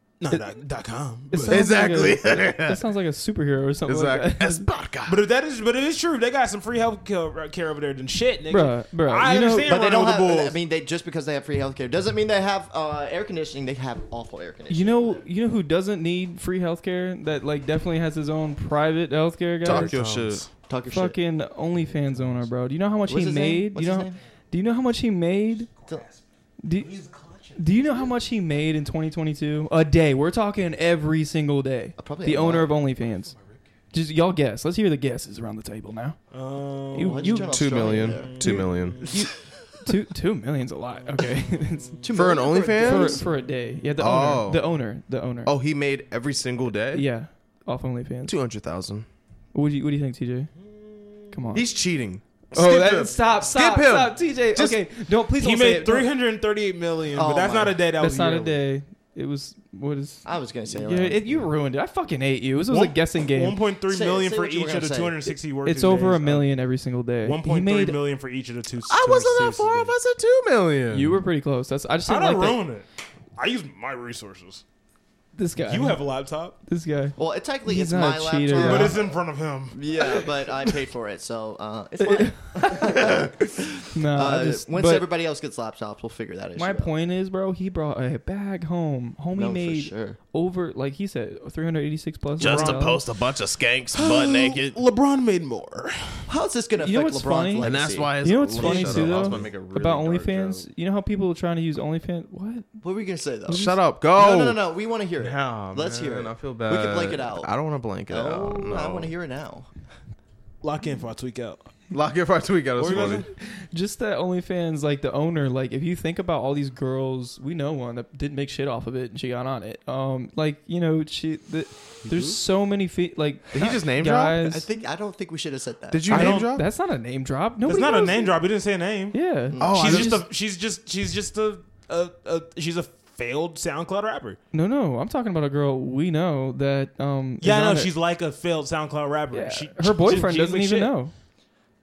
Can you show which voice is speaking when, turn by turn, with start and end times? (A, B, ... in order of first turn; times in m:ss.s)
0:00.2-0:01.6 A
0:01.3-0:04.7 B
0:01.5-0:02.8 C
0:03.9-0:05.2 C
0:05.1-0:10.6 A
0:08.5-0:09.7 B
0:09.6-0:15.2 D
0:14.7-0:20.0 B
0:19.6-0:20.5 C
0:19.7-0:20.5 A
0:20.7-0:21.2 D
0:20.9-0:25.7 B
0:23.1-0:24.2 D
0:25.8-0:26.2 A
0:26.6-0:26.9 B
0:26.8-0:27.9 A
0:27.6-0:33.3 B
0:32.0-0:32.7 D
0:33.9-0:36.2 B
0:36.3-0:39.2 A
0:36.9-0:39.3 B
0:37.0-0:38.6 D
0:37.5-0:39.1 C
0:39.8-0:42.0 B
0:41.1-0:42.0 A
0:42.0-0:43.3 D
0:42.1-0:43.2 C
0:42.8-0:45.5 B
0:44.0-0:44.6 C
0:45.5-0:47.0 C
0:46.9-0:48.4 B
0:48.3-0:49.1 C
0:49.5-0:50.5 B
0:50.6-0:51.4 A
0:51.3-0:51.7 B
0:51.5-0:54.8 C
0:52.5-0:56.1 B
0:55.4-0:58.6 A
0:57.2-0:57.8 D
0:58.0-1:03.6 B
1:00.2-1:01.5 D
1:02.7-1:06.5 A
1:03.9-1:05.3 D
1:05.6-1:08.0 B
1:07.2-1:10.0 A
1:08.9-1:11.2 C
1:10.9-1:12.6 B
1:12.1-1:14.6 A
1:15.4-1:16.0 B
1:15.7-1:16.6 A
1:16.7-1:19.0 B
1:17.2-1:19.1 D
1:18.5-1:20.2 A
1:19.7-1:26.9 D
1:22.0-1:23.1 B
1:23.9-1:25.1 B
1:26.6-1:33.0 B
1:29.3-1:30.2 D
1:32.4-1:34.8 C
1:32.4-1:33.0 A
1:33.9-1:36.3 A
1:36.3-1:39.5 D
1:36.8-1:42.7 B
1:37.6-1:40.7 C
1:42.8-1:47.5 D
1:43.5-1:44.6 C
1:45.2-1:49.1 C
1:48.1-1:49.7 D
1:50.6-1:51.6 A
1:51.9-1:53.3 C
1:52.8-1:53.3 A
1:53.5-2:04.7 B
2:03.5-2:04.4 C
2:04.4-2:06.1 D
2:05.9-2:06.7 C
2:06.1-2:06.5 A
2:06.1-2:08.3 B
2:07.7-2:09.2 A
2:09.1-2:10.2 B
2:09.5-2:09.9 D
2:09.6-2:10.2 C
2:09.7-2:14.4 A
2:14.5-2:17.9 B
2:17.4-2:21.0 A
2:19.3-2:21.1 B